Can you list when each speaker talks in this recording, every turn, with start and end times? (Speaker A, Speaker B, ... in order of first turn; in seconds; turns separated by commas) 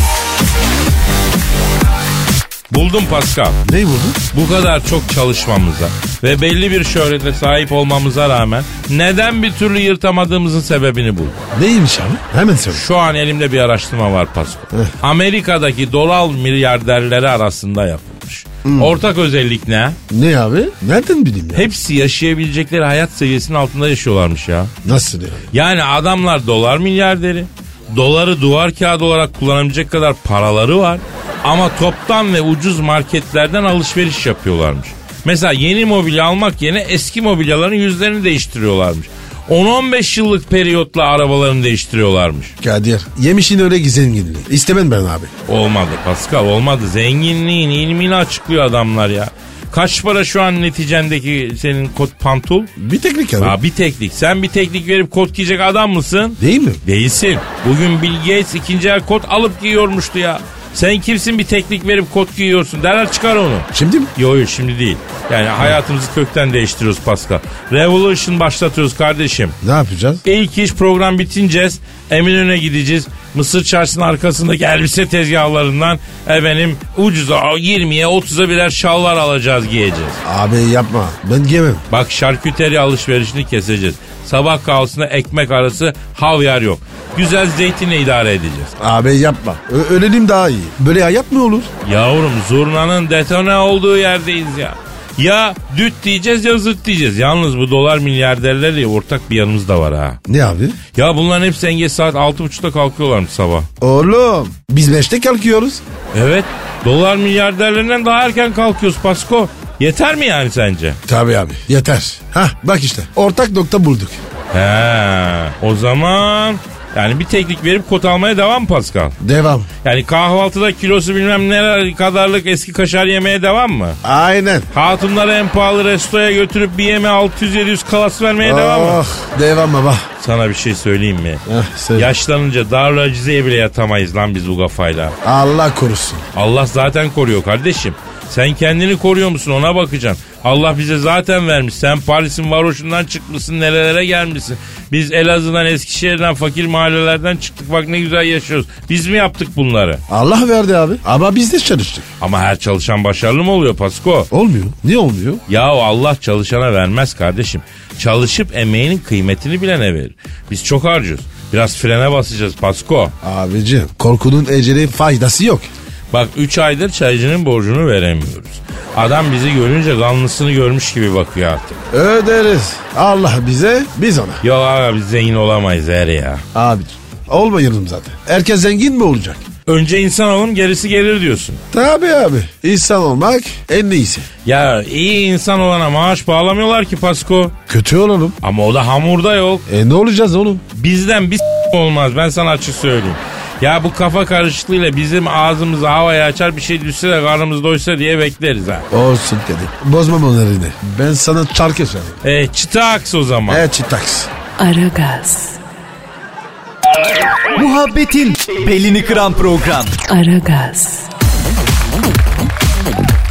Speaker A: 2.7-3.6, Speaker B: 3.6-4.2, Speaker A: 4.3-11.4, Speaker B: 11.5-12.8, Speaker A: 12.7-20.0, Speaker B: 18.6-19.0, Speaker B: 20.1-21.7, Speaker A: 21.6-24.7, Speaker B: 24.8-25.5, Speaker A: 25.5-42.5, Speaker B: 42.6-45.3, Speaker A: 45.5-52.7, Speaker B: 52.8-53.6, Speaker A: 53.4-69.5, Speaker B: 56.4-56.8, Speaker B: 63.7-64.1, Speaker B: 69.6-70.2, Speaker A: 70.2-80.2, Speaker B: 80.2-81.8, Speaker A: 81.9-88.7, Speaker B: 88.8-91.7, Speaker A: 91.8-100.2, Speaker B: 100.3-100.8, Speaker A: 101.0-103.7, Speaker B: 103.8-105.8, Speaker A: 106.1-111.0, Speaker B: 111.1-114.2, Speaker A: 114.5-119.2, Speaker B: 119.2-119.7, Speaker A: 119.8-124.0, Speaker B: 124.0-124.7, Speaker A: 124.7-129.0, Speaker B: 128.4-130.1, Speaker A: 130.2-131.4, Speaker B: 131.5-132.1, Speaker A: 132.0-135.2, Speaker B: 135.2-136.2, Speaker A: 136.3-150.0, Speaker B: 150.1-152.1, Speaker A: 152.2-154.3, Speaker B: 154.3-155.4, Speaker A: 155.5-163.1, Speaker B: 163.2-165.7, Speaker A: 166.1-171.8, Speaker B: 171.9-174.4, Speaker A: 174.4-176.4, Speaker B: 176.5-179.4, Speaker A: 179.7-181.6, Speaker B: 181.7-184.3, Speaker A: 184.4-187.6, Speaker B: 187.7-188.4, Speaker A: 188.4-189.7, Speaker B: 189.7-190.7, Speaker A: 190.7-198.8, Speaker B: 198.9-202.2, Speaker A: 202.2-203.6, Speaker B: 203.5-204.3, Speaker C: 204.6-205.6, Speaker D: 207.6-210.0, Speaker C: 210.1-211.1